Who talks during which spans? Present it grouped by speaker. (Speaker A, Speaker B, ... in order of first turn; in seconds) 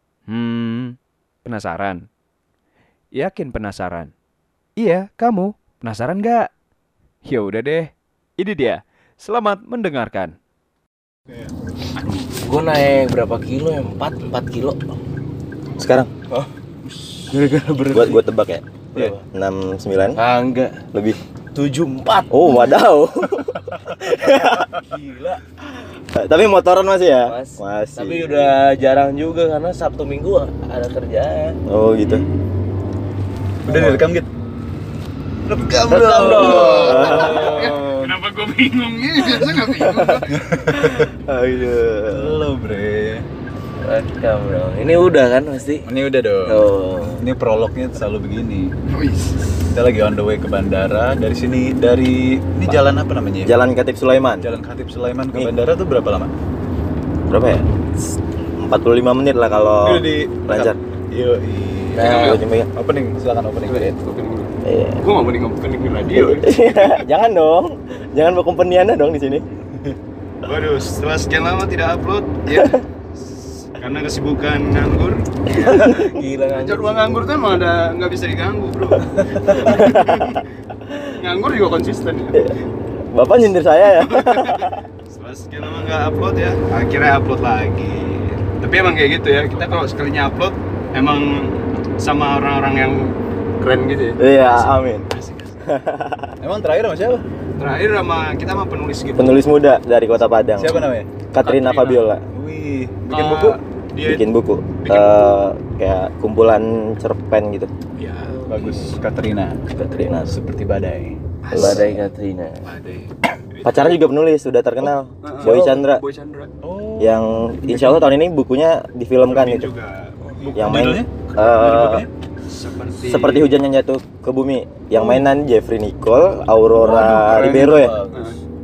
Speaker A: 0.3-2.0, 3.1-4.1, 4.8-6.5, 7.2-10.3, 12.0-12.2
Speaker B: 12.4-15.0, 17.3-18.2, 18.9-19.2, 20.2-20.9, 21.6-22.7, 23.9-25.4, 27.3-31.6, 33.6-34.1, 35.9-37.8, 43.8-45.9, 46.5-47.3, 61.9-62.4, 75.6-77.3, 108.2-109.0, 111.5-112.7
Speaker C: 15.8-16.1, 17.9-18.6, 19.3-20.2, 20.9-21.2, 22.3-24.7, 25.8-28.6, 31.7-32.2, 36.4-37.7, 39.7-42.4, 53.4-54.5, 57.3-60.8, 62.0-62.7, 64.6-65.0, 66.1-69.5, 75.6-76.1, 79.6-80.4, 83.1-84.8, 94.2-95.1, 95.6-96.3, 99.2-102.2, 104.0-107.7, 109.9-110.3, 111.5-112.0, 113.7-116.0, 117.0-119.7, 120.6-122.1, 123.0-128.0
Speaker D: 33.6-34.3, 35.5-38.1, 40.3-41.1, 42.1-43.3, 45.9-48.7, 49.8-53.5, 54.4-56.3, 59.8-63.9, 96.4-97.2, 100.6-101.1, 102.3-103.6, 108.5-109.6, 110.2-111.2, 116.6-118.1, 120.5-121.1, 125.0-125.2, 126.8-128.4
Speaker E: 36.4-40.4, 48.9-49.4, 62.0-62.4, 63.7-67.0, 70.4-72.8, 73.7-76.0, 76.6-80.4, 81.0-82.7, 83.9-95.5, 97.6-99.5, 101.4-102.1, 103.0-104.2, 104.8-105.5, 108.0-108.9, 111.4-111.9, 112.7-114.0, 115.2-116.5, 119.2-120.9, 121.4-123.5